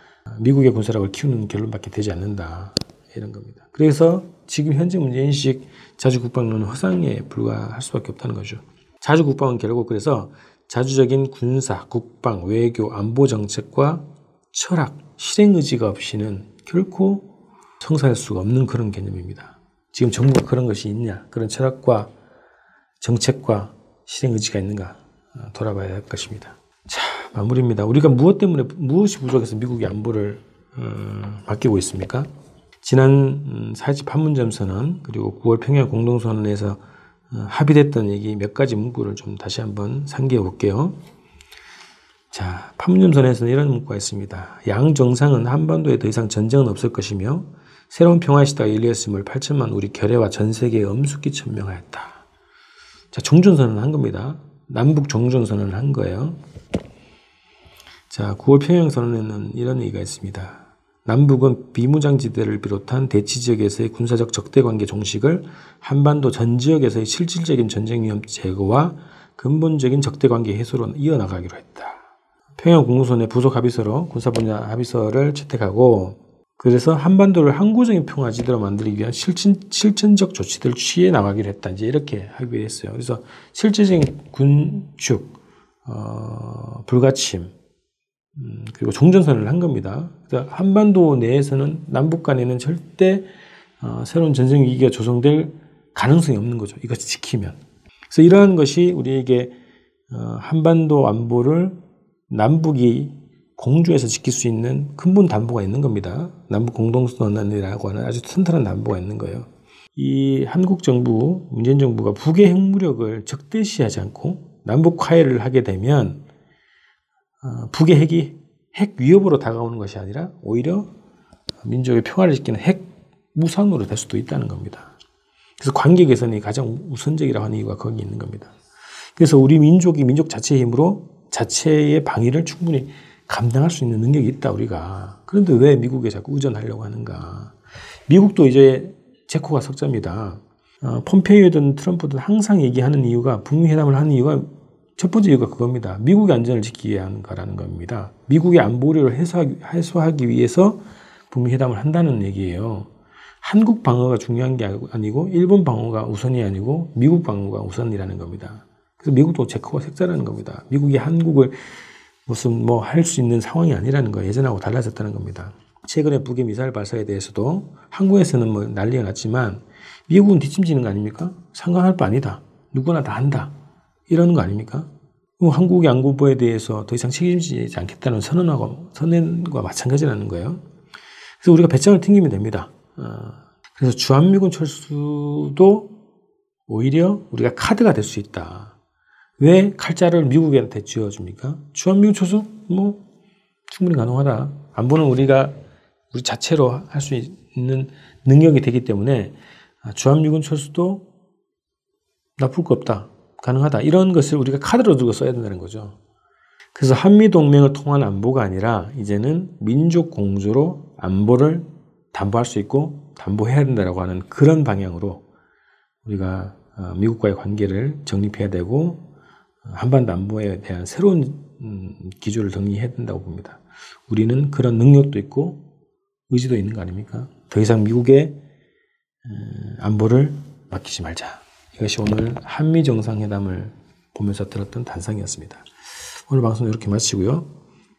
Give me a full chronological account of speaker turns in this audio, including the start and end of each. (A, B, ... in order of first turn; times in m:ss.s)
0:00.3-0:17.3 A
0:17.8-0:22.1 A
0:23.0-0:32.3 A
0:32.8-0:41.0 A
0:42.3-0:52.2 A
0:53.1-0:56.4 A
0:58.1-1:12.0 A
1:12.6-1:27.5 A
1:28.4-1:37.6 A
1:38.1-1:39.6 A
1:40.1-1:56.2 A
1:57.4-2:00.9 A
2:01.6-2:05.0 A
2:05.6-2:08.5 A
2:09.2-2:17.6 A
2:18.1-2:32.9 A
2:33.4-2:41.6 A
2:42.3-2:53.5 A
2:54.1-3:00.6 A
3:01.4-3:05.9 A
3:06.7-3:08.8 A
3:09.4-3:13.0 A
3:13.7-3:15.6 A
3:16.1-3:21.0 A
3:22.4-3:26.0 A
3:26.8-3:35.2 A
3:36.0-3:39.0 A
3:39.6-3:45.6 A
3:46.3-3:48.4 A
3:49.2-3:55.7 A
3:56.3-3:57.5 A